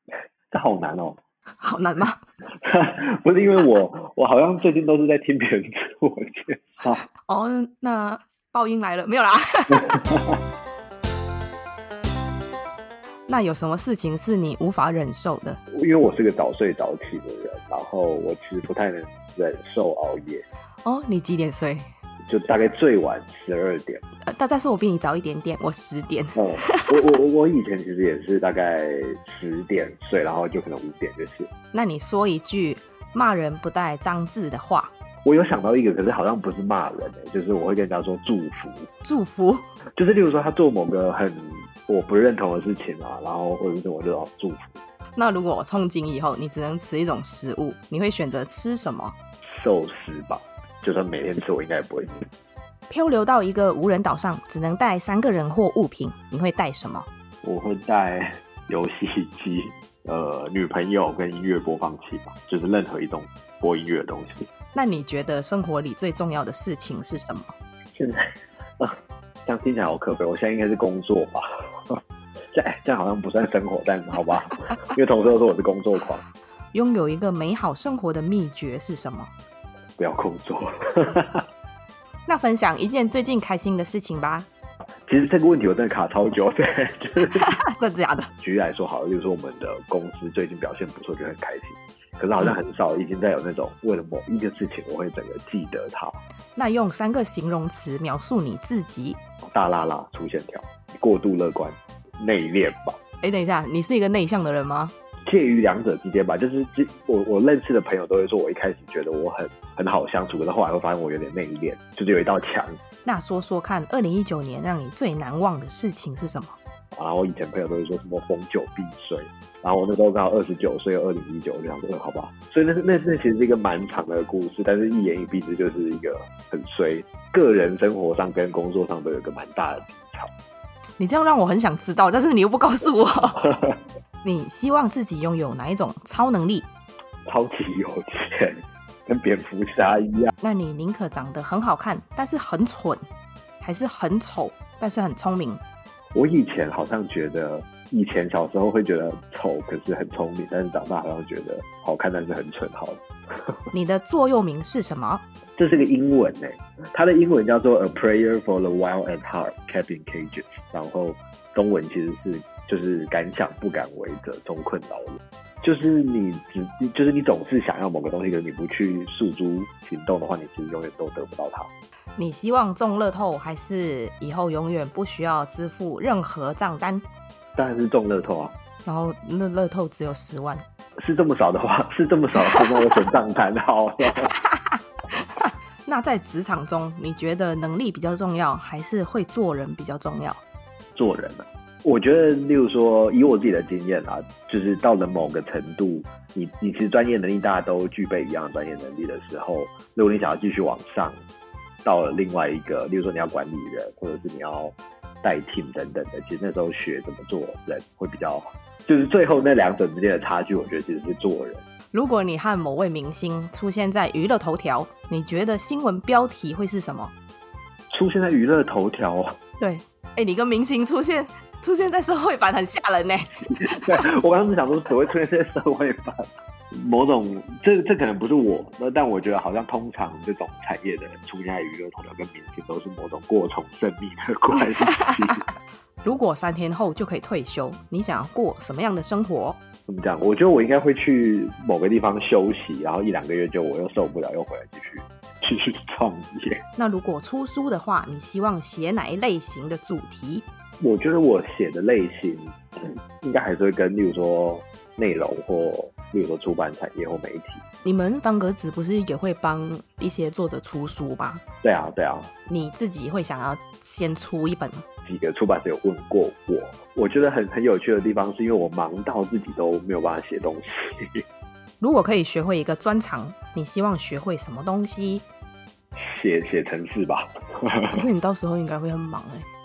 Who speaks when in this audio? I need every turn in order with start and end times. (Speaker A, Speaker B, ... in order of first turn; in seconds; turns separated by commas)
Speaker A: 0.5-1.2, Speaker B: 1.6-2.2, Speaker A: 2.6-7.0, Speaker B: 7.2-10.2, Speaker A: 9.8-10.3, Speaker B: 13.3-15.6, Speaker A: 15.7-20.4, Speaker B: 20.8-21.9, Speaker A: 22.3-24.0, Speaker B: 24.3-26.9, Speaker A: 26.3-31.5, Speaker B: 31.7-34.9, Speaker A: 35.2-38.9, Speaker B: 39.0-39.6, Speaker A: 40.0-44.8, Speaker B: 45.1-49.1, Speaker A: 49.4-52.3, Speaker B: 52.9-57.1, Speaker A: 57.4-64.5, Speaker B: 64.7-67.5, Speaker A: 67.9-68.9, Speaker A: 69.5-72.0, Speaker A: 72.5-76.2, Speaker B: 76.7-79.3, Speaker A: 80.0-81.4, Speaker B: 82.2-84.5, Speaker A: 85.1-87.5, Speaker B: 87.3-88.3, Speaker A: 88.4-96.2, Speaker B: 96.5-99.2, Speaker A: 99.4-103.0, Speaker B: 103.2-104.9, Speaker A: 105.2-112.8, Speaker B: 113.0-116.6, Speaker A: 116.9-130.3, Speaker B: 131.0-133.4, Speaker A: 133.4-133.8, Speaker B: 134.2-136.7, Speaker A: 137.2-140.3, Speaker B: 140.4-143.0, Speaker B: 143.6-145.6, Speaker A: 146.1-153.6, Speaker B: 153.7-155.2, Speaker A: 155.6-171.7, Speaker B: 172.2-177.0, Speaker A: 177.5-178.5, Speaker B: 178.8-180.6, Speaker A: 181.0-184.3, Speaker B: 185.2-190.4, Speaker A: 190.9-201.2, Speaker A: 201.8-211.6, Speaker B: 211.9-217.1, Speaker A: 217.9-219.3, Speaker B: 219.6-223.8, Speaker A: 223.5-235.4, Speaker B: 236.0-239.6, Speaker A: 239.9-246.6, Speaker B: 246.8-250.4, Speaker A: 250.8-257.6, Speaker B: 257.8-261.4, Speaker A: 261.6-262.3, Speaker B: 262.5-264.8, Speaker A: 265.1-271.2, Speaker B: 271.8-275.2, Speaker A: 275.9-278.0, Speaker B: 277.9-279.5